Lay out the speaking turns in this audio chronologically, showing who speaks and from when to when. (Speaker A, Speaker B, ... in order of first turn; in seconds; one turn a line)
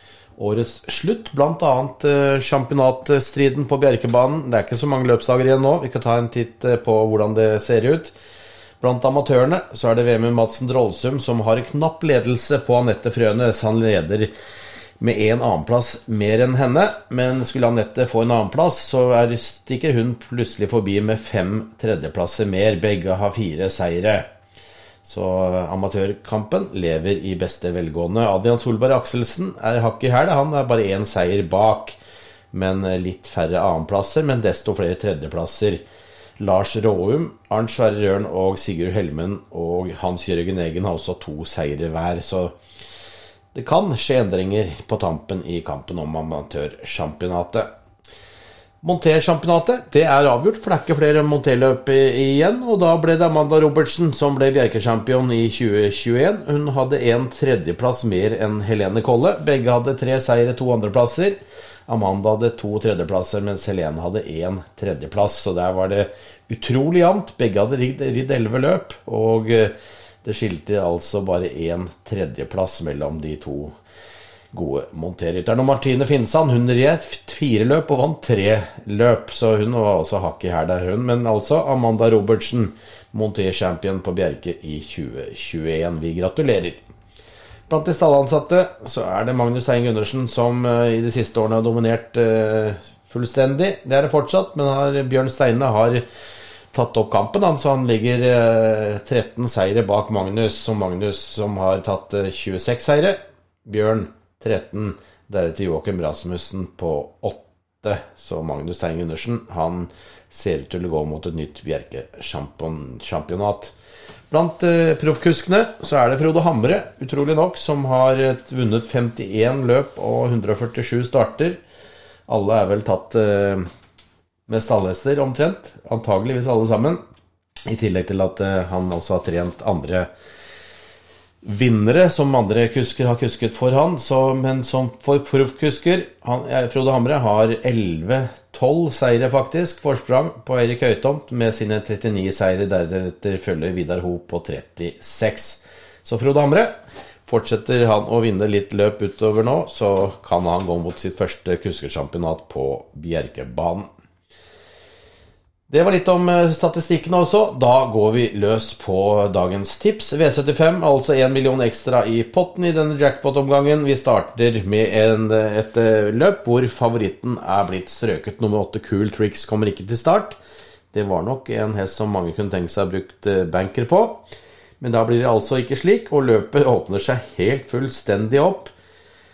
Speaker A: 0.4-8.1
Speaker A: 8.8-14.3
Speaker A: 15.0-24.3
Speaker A: 25.0-32.0
Speaker A: 32.5-35.8
Speaker A: 36.4-42.5
Speaker A: 43.5-47.7
Speaker A: 48.8-73.7
Speaker A: 74.5-86.8
Speaker A: 87.7-96.0
Speaker A: 96.7-113.7
Speaker A: 114.3-121.6
Speaker A: 122.3-123.7
Speaker A: 124.5-127.0
Speaker A: 127.7-130.1
Speaker A: 131.4-146.7
Speaker A: 147.2-153.9
Speaker A: 155.7-170.4
Speaker A: 170.9-174.2
Speaker A: 174.8-178.7